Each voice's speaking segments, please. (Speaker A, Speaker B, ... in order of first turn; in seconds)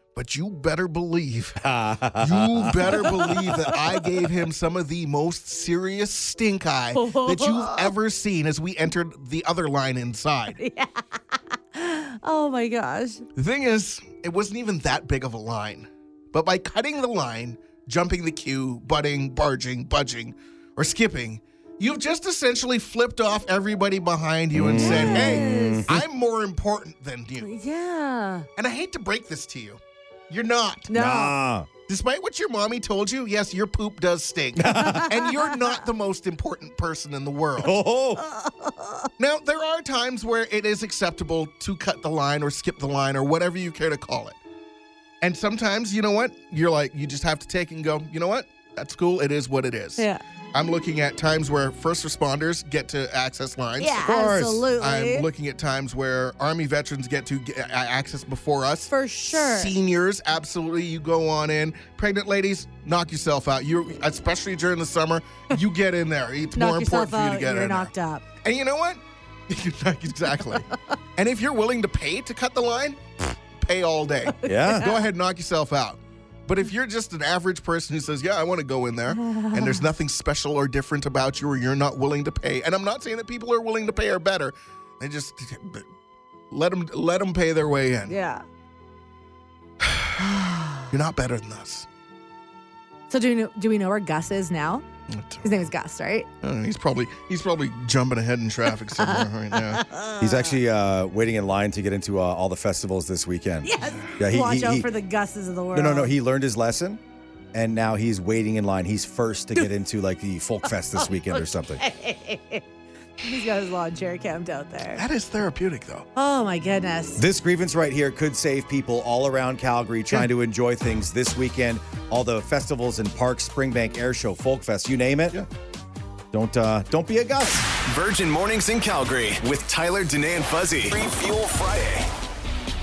Speaker A: 0.1-1.6, 2.2-10.6, 13.3-27.5, 28.6-30.9, 31.9-37.7, 39.2-44.4, 45.2-67.9, 68.4-85.9, 86.5-88.2, 89.8-90.3, 90.9-91.8, 95.1-95.5, 96.4-99.8, 114.9-116.1
Speaker B: 1.6-3.3, 24.5-26.0, 30.9-31.7, 34.6-35.1, 37.6-38.2, 74.4-74.9, 100.2-104.9, 105.7-107.0, 107.5-111.8, 117.2-125.4, 126.3-127.7
Speaker C: 3.0-3.8, 6.9-7.9, 10.5-13.2, 24.8-25.9, 27.4-28.4, 30.9-31.3, 34.8-35.7, 38.2-39.1, 53.8-55.2, 58.9-59.7, 66.5-68.2, 74.4-74.9, 79.1-79.8, 88.1-88.4, 90.2-90.8, 93.1-94.8, 95.4-96.3, 99.0-100.5, 103.6-106.1, 111.0-112.6, 113.2-115.0, 116.2-117.2
Speaker D: 127.8-132.1